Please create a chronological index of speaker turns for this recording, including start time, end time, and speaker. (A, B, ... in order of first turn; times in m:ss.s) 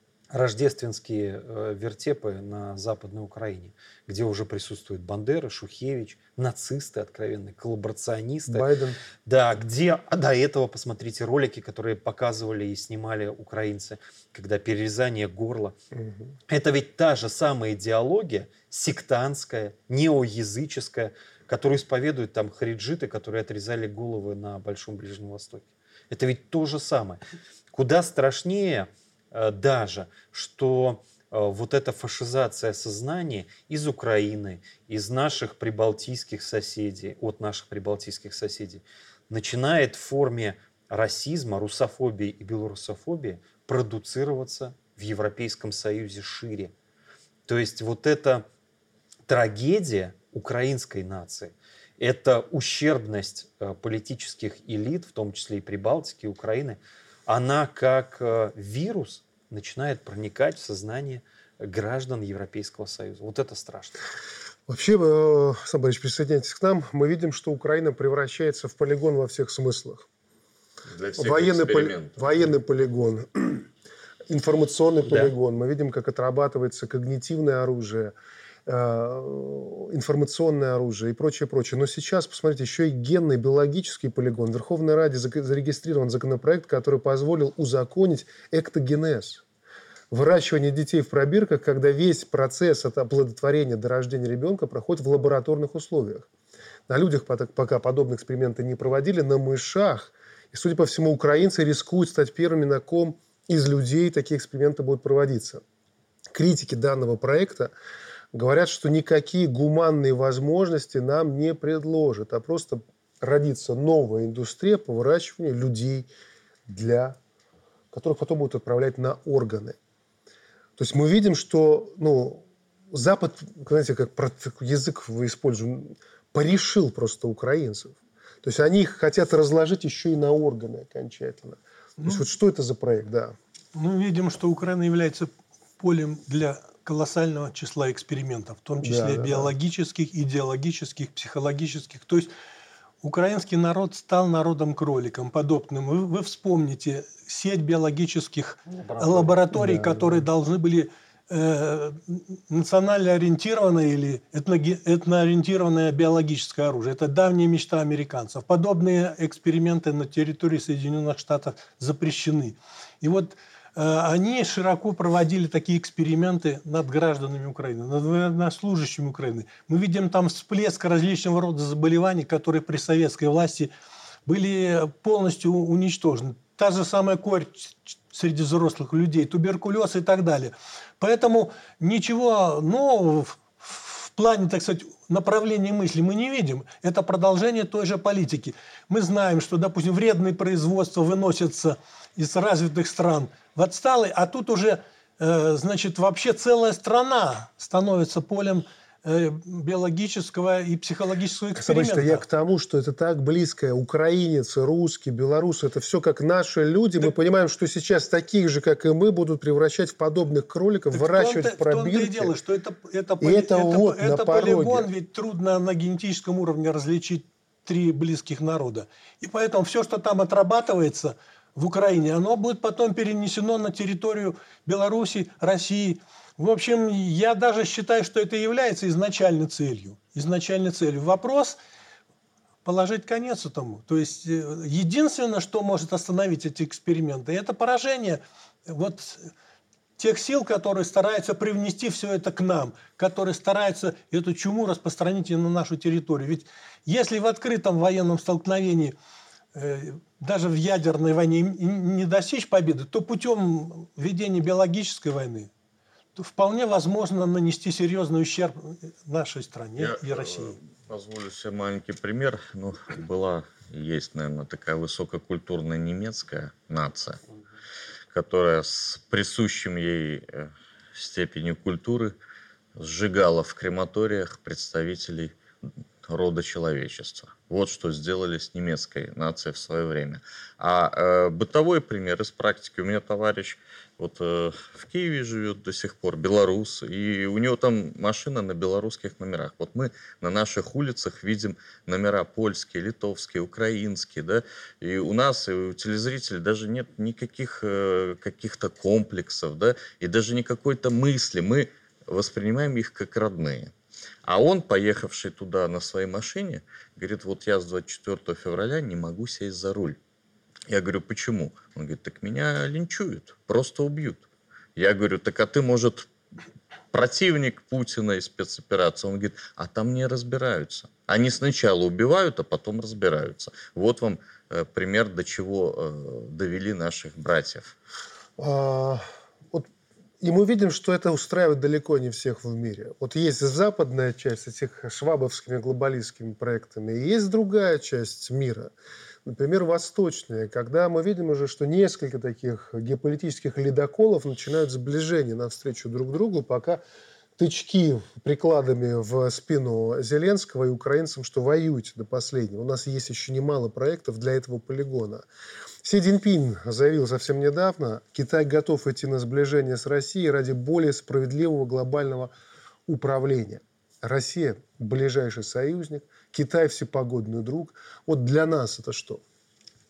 0:00.3-0:08.7 A
0:08.5-0:09.0 B
0:09.2-0:15.8 A
0:15.9-0:16.3 B
0:16.5-0:27.2 A
0:27.7-0:46.7 A
0:47.5-0:48.4 A
0:49.3-1:04.0 A
1:04.7-1:10.0 B
1:10.9-1:12.5 C
1:11.2-1:13.7 B
1:14.3-1:18.1 B
1:15.0-1:15.3 A
1:18.7-1:29.4 B
1:30.1-1:36.3 B
1:36.9-1:45.6 B
1:46.3-1:47.7 B
1:48.3-1:56.1 B
1:56.7-1:57.2 B
1:57.9-1:59.8 B
2:00.8-2:13.3 B
2:13.7-2:22.3 D
2:18.8-2:19.5 B
2:23.0-2:53.7 D
2:28.7-2:29.4 A
2:29.5-2:30.1 B
2:54.2-3:22.2 D
3:21.6-3:32.3 B
3:30.9-3:51.6 D
3:33.2-3:34.9 B
3:52.6-3:59.3 D
4:00.0-4:08.9 D
4:09.5-4:15.5 D
4:16.2-4:20.6 D
4:19.8-4:27.2 C
4:28.1-4:32.1 C
4:32.8-4:35.3 C
4:36.0-5:03.7 C
5:04.2-5:10.0 C
5:10.7-5:16.1 C
5:16.9-5:27.7 C
5:28.4-5:29.7 B
5:30.2-5:38.7 B
5:39.2-5:46.8 B
5:47.4-5:55.2 B
5:55.8-6:02.3 B
6:02.9-6:09.2 B